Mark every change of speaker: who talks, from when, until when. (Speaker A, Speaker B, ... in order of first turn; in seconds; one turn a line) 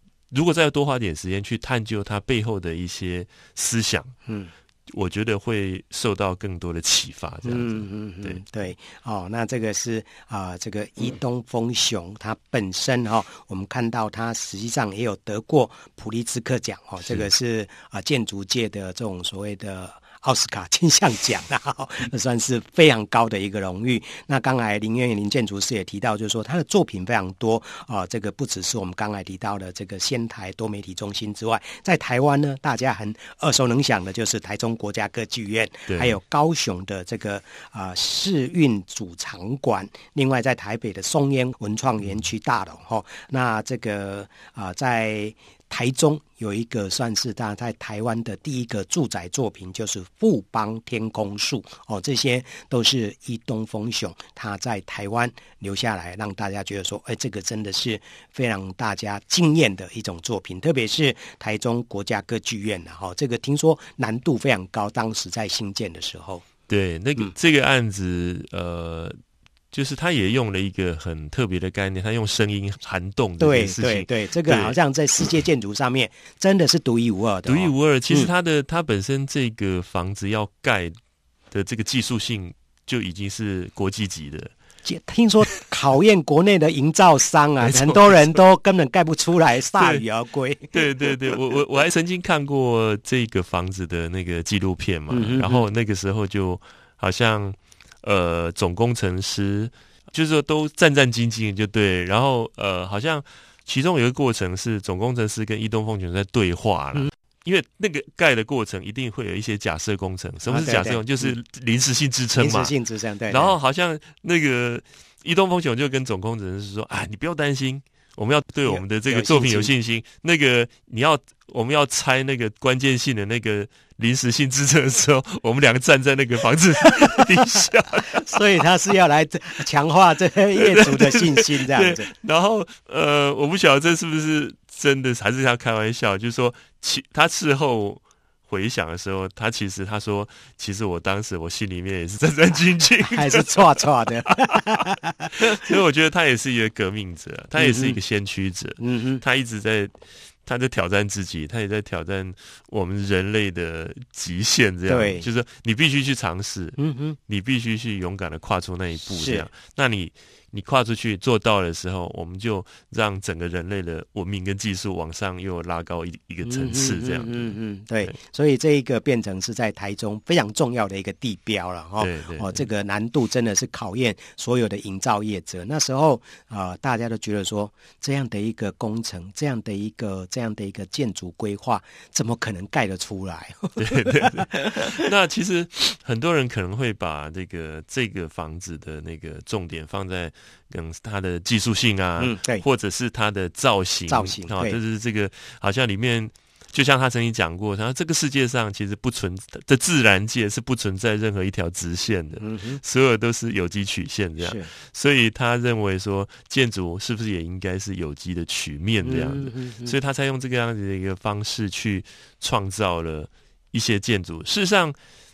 Speaker A: 0.3-4.1
Speaker B: 4.3-4.5
Speaker A: 4.9-8.4
Speaker B: 7.5-66.5
Speaker A: 35.9-36.2
Speaker A: 66.7-69.2
Speaker A: 69.7-74.8
Speaker B: 73.4-78.3
Speaker A: 77.5-80.9
Speaker A: 81.5-84.5
Speaker B: 84.8-91.4
Speaker A: 87.6-88.4
Speaker A: 89.8-90.0
Speaker A: 90.7-112.7
Speaker B: 95.1-95.7
Speaker B: 110.5-111.4
Speaker B: 112.4-113.6
Speaker A: 113.3-128.6
Speaker B: 118.7-119.7
Speaker B: 128.2-132.1
Speaker A: 130.6-149.9
Speaker B: 143.1-145.3
Speaker B: 147.6-148.0
Speaker B: 148.8-149.2
Speaker A: 150.5-168.2
Speaker B: 154.9-155.3
Speaker B: 156.8-157.2
Speaker B: 159.1-159.5
Speaker B: 166.4-184.9
Speaker A: 172.0-172.7
Speaker A: 183.8-215.0
Speaker B: 192.2-192.6
Speaker B: 194.1-194.8
Speaker B: 202.4-202.8
Speaker B: 204.4-204.7
Speaker B: 209.0-210.0